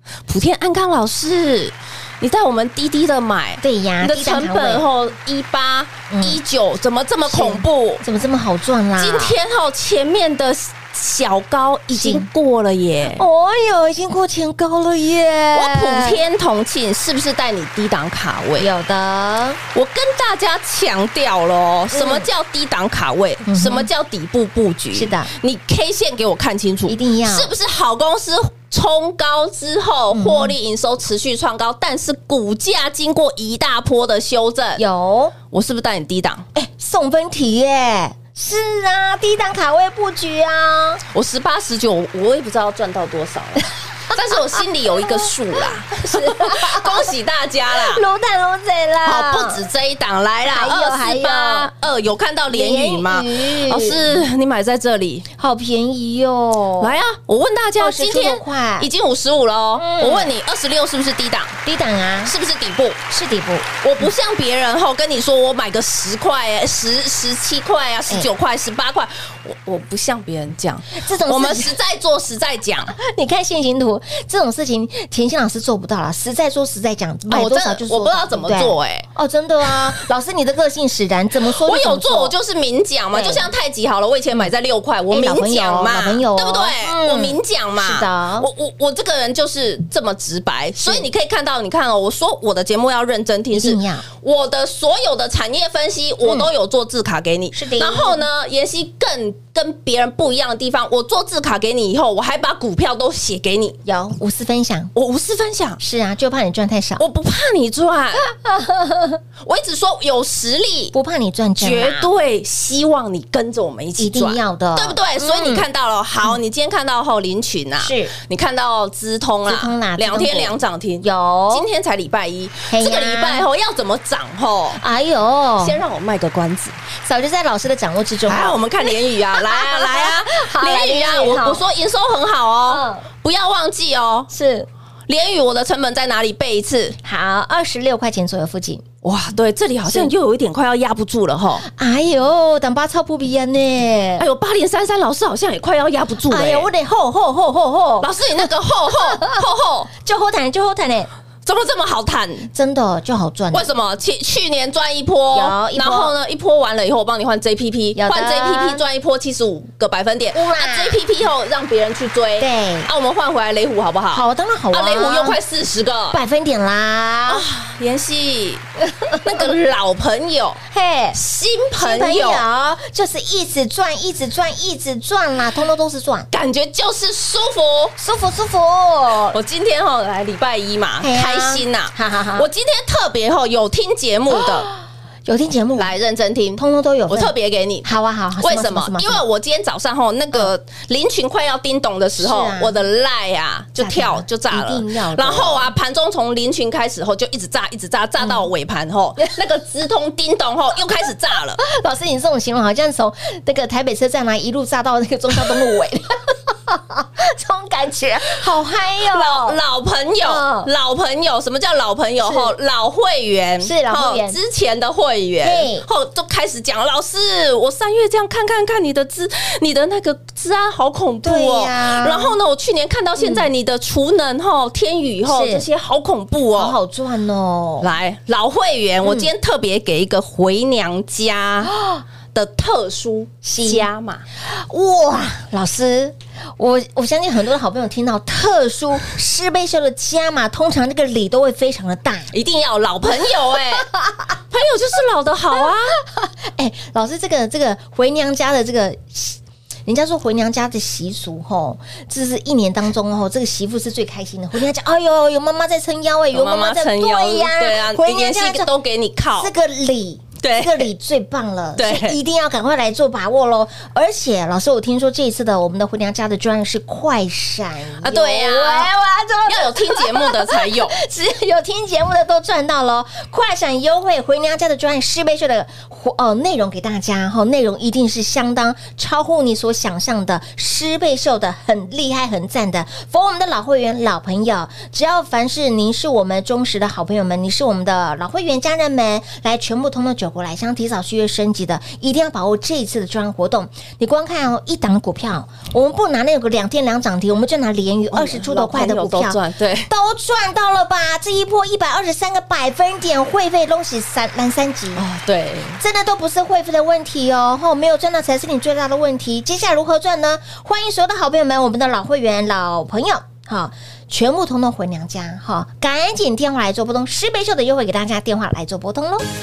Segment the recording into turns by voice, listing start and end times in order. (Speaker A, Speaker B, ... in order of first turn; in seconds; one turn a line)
Speaker A: 0.3-8.0
Speaker B: 3.6-4.8
Speaker B: 6.1-6.4
Speaker B: 7.2-9.3
Speaker A: 9.0-13.2
Speaker B: 11.9-12.3
Speaker B: 13.0-16.2
Speaker A: 15.5-18.7
Speaker B: 18.6-19.6
Speaker A: 19.7-34.8
Speaker B: 21.9-22.3
Speaker B: 23.4-23.9
Speaker B: 24.9-25.3
Speaker B: 26.9-27.5
Speaker B: 30.1-30.5
Speaker B: 34.8-35.3
Speaker A: 35.5-36.4
Speaker B: 36.5-41.0
Speaker A: 41.1-48.0
Speaker B: 44.1-47.1
Speaker B: 47.7-49.6
Speaker A: 49.0-55.2
Speaker B: 50.5-51.7
Speaker B: 52.5-54.2
Speaker B: 55.4-56.9
Speaker A: 56.8-61.5
Speaker B: 57.8-58.9
Speaker B: 59.8-60.3
Speaker B: 61.6-62.3
Speaker A: 62.2-63.0
Speaker B: 63.1-64.0
Speaker A: 63.8-73.0
Speaker B: 70.9-71.7
Speaker B: 72.9-82.3
Speaker A: 77.3-79.1
Speaker A: 81.5-103.8
Speaker B: 83.1-83.5
Speaker B: 85.1-88.5
Speaker B: 90.8-91.1
Speaker B: 93.5-94.0
Speaker B: 97.5-98.2
Speaker B: 103.8-104.9
Speaker A: 104.9-105.8
Speaker B: 105.8-107.0
Speaker A: 107.0-108.3
Speaker B: 108.2-109.2
Speaker A: 109.4-110.9
Speaker B: 110.9-112.1
Speaker A: 111.6-124.8
Speaker B: 114.0-115.6
Speaker B: 117.8-118.1
Speaker B: 119.5-121.7
Speaker B: 122.7-123.5
Speaker B: 124.8-125.8
Speaker A: 125.6-126.7
Speaker B: 127.0-131.6
Speaker A: 128.3-134.3
Speaker B: 132.7-133.1
Speaker B: 134.3-134.7
Speaker A: 135.1-137.0
Speaker B: 137.0-138.8
Speaker A: 139.0-141.7
Speaker B: 139.8-140.1
Speaker B: 141.7-144.2
Speaker A: 144.2-146.7
Speaker B: 146.3-148.1
Speaker A: 148.0-149.9
Speaker B: 149.0-149.4
Speaker B: 149.9-151.1
Speaker A: 151.4-152.5
Speaker B: 152.5-153.7
Speaker A: 153.5-166.2
Speaker B: 155.3-156.1
Speaker B: 157.9-158.8
Speaker B: 160.3-161.0
Speaker B: 162.4-162.9
Speaker B: 164.1-165.4
Speaker B: 166.1-167.4
Speaker A: 167.3-168.6
Speaker A: 169.2-170.6
Speaker B: 170.7-171.2
Speaker A: 171.1-172.4
Speaker B: 171.8-176.3
Speaker A: 176.3-177.9
Speaker B: 178.0-179.4
Speaker A: 179.3-184.7
Speaker B: 181.0-182.5
Speaker B: 184.3-185.9
Speaker A: 185.8-201.6
Speaker B: 186.6-187.3
Speaker B: 187.8-189.2
Speaker B: 192.2-192.7
Speaker B: 193.8-195.7
Speaker B: 198.2-198.5
Speaker B: 201.6-209.6
Speaker A: 209.1-226.8
Speaker B: 210.2-210.7
Speaker B: 212.2-212.5
Speaker B: 213.6-214.4
Speaker B: 215.4-215.9
Speaker B: 221.2-222.4
Speaker B: 223.2-223.5
Speaker B: 225.2-225.7
Speaker B: 226.6-227.9
Speaker A: 227.8-231.7
Speaker B: 229.0-229.3
Speaker B: 231.8-232.0
Speaker A: 232.3-234.2
Speaker B: 233.4-233.8
Speaker B: 234.4-242.3
Speaker A: 242.3-243.9
Speaker B: 243.8-244.3
Speaker A: 244.5-246.0
Speaker B: 245.6-258.7
Speaker A: 256.3-259.5
Speaker B: 259.4-305.1
Speaker A: 260.4-260.9
Speaker A: 261.8-262.2
Speaker A: 268.0-268.9
Speaker A: 269.4-270.9
Speaker A: 298.1-299.9
Speaker A: 304.9-305.8
Speaker B: 305.8-319.3